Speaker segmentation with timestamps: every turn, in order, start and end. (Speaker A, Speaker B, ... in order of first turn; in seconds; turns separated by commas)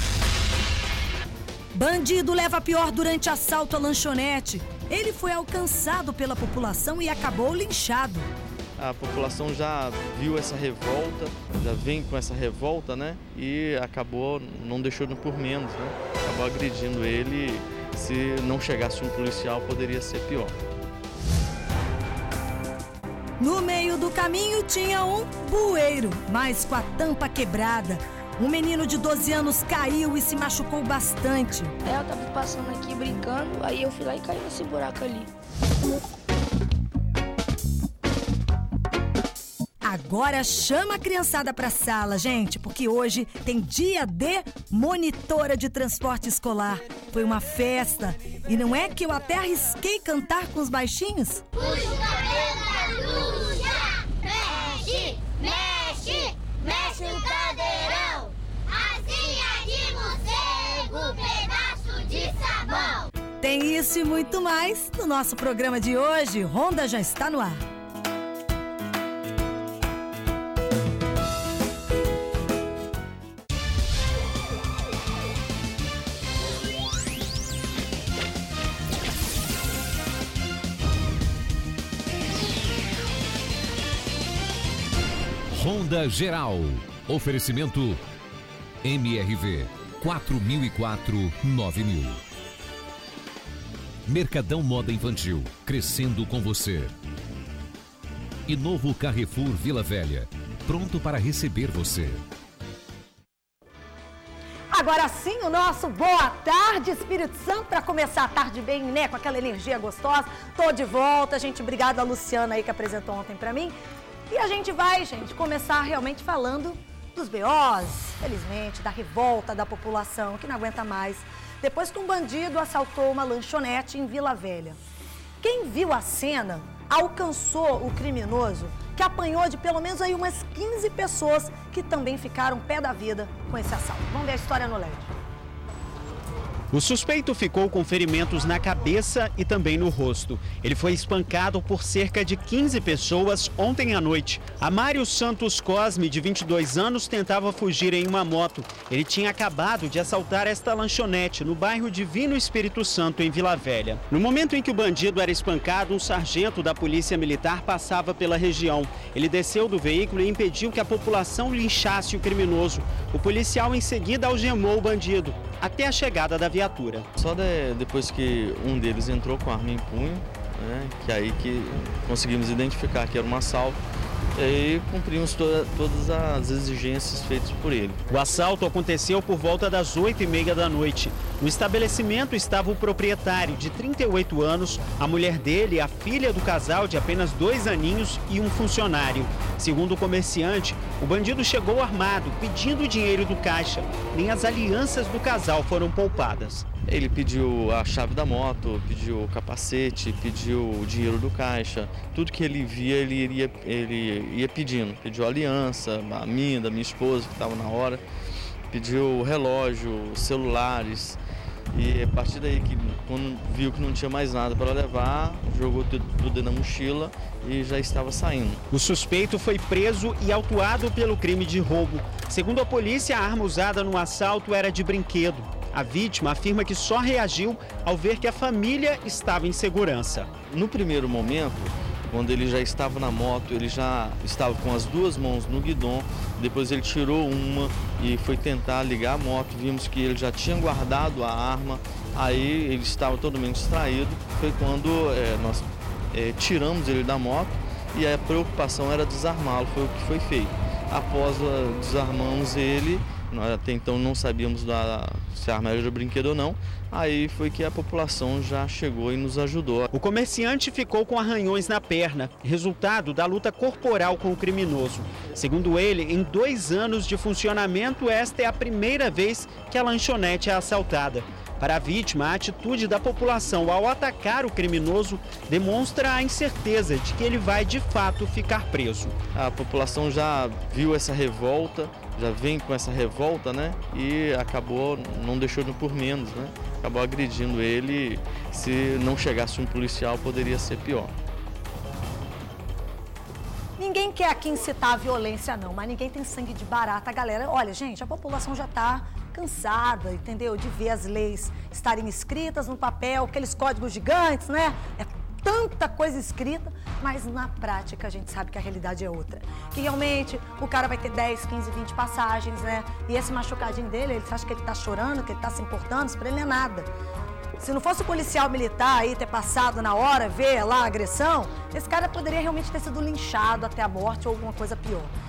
Speaker A: 1.7-8.3, Speaker B: 8.8-20.6, Speaker A: 23.4-31.8, Speaker C: 31.8-35.3, Speaker A: 39.8-51.5, Speaker D: 51.6-63.1, Speaker A: 63.4-67.6, Speaker E: 85.5-88.0, Speaker E: 88.8-92.2, Speaker E: 94.1-96.9, Speaker E: 98.5-102.2, Speaker A: 104.7-113.7, Speaker A: 114.3-124.8, Speaker A: 125.4-135.1, Speaker F: 136.7-167.1, Speaker B: 167.2-173.8, Speaker B: 174.3-178.1, Speaker F: 178.1-196.7, Speaker B: 196.9-208.0, Speaker B: 208.7-211.2, Speaker B: 211.7-218.6, Speaker F: 218.7-230.3, Speaker B: 230.5-259.9, Speaker F: 259.9-279.2, Speaker B: 279.3-291.1, Speaker A: 293.8-316.9, Speaker A: 317.6-325.1